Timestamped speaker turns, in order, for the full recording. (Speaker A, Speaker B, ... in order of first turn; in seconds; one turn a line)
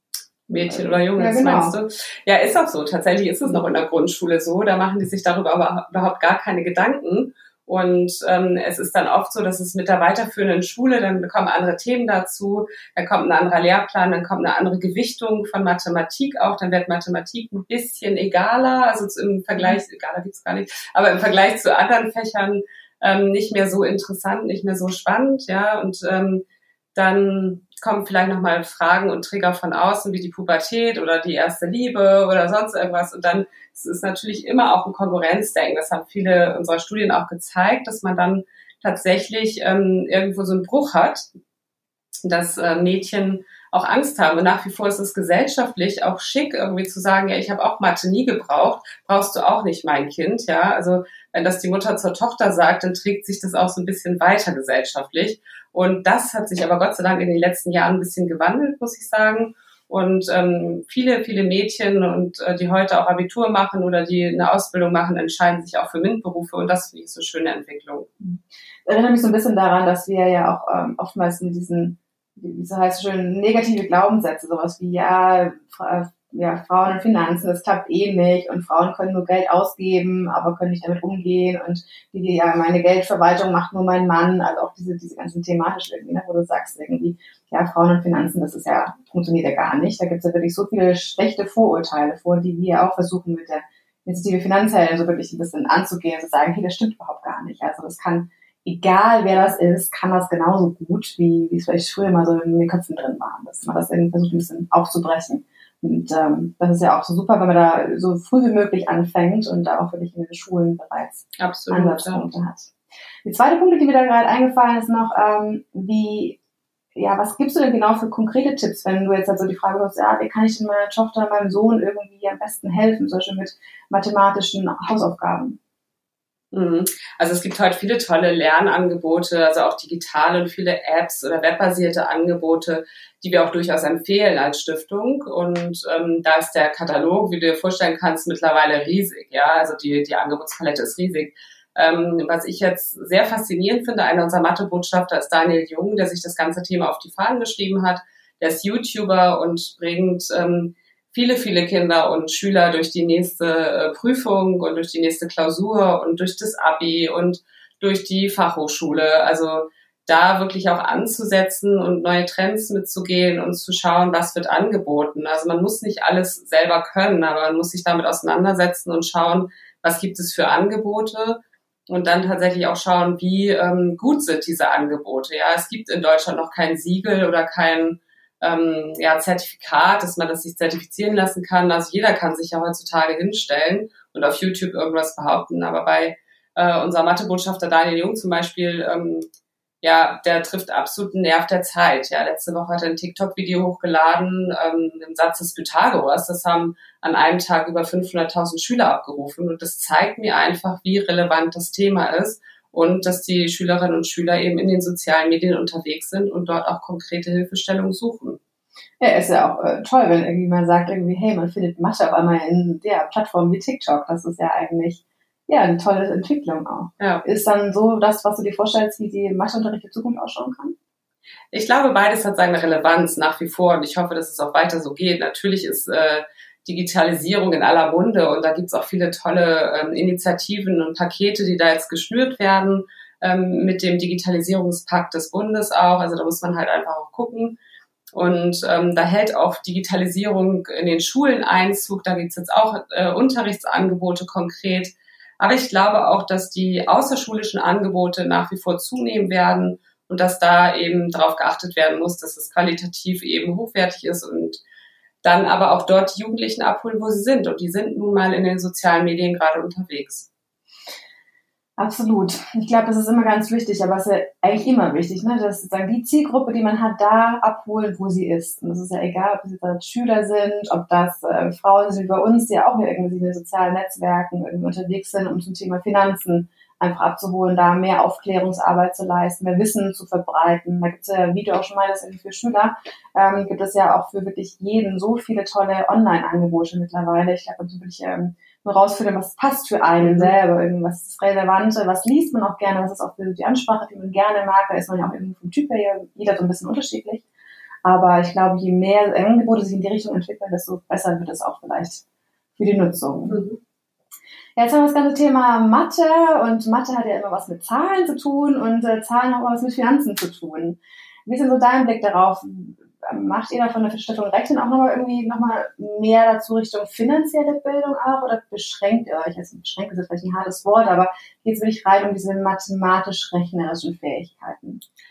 Speaker A: 0.5-41.3
Speaker B: 0.5-1.8
Speaker A: 42.2-68.1
Speaker B: 68.2-112.7
Speaker A: 111.4-112.2
Speaker B: 113.2-116.4
Speaker B: 116.9-125.6
Speaker A: 126.5-189.3
Speaker A: 189.8-208.4
Speaker B: 209.0-220.8
Speaker A: 221.5-237.6
Speaker A: 238.1-254.6
Speaker A: 255.2-260.3
Speaker B: 261.8-297.2
Speaker A: 290.0-290.3
Speaker B: 297.8-302.0
Speaker B: 302.6-303.4
Speaker A: 303.3-303.6
Speaker B: 304.6-324.8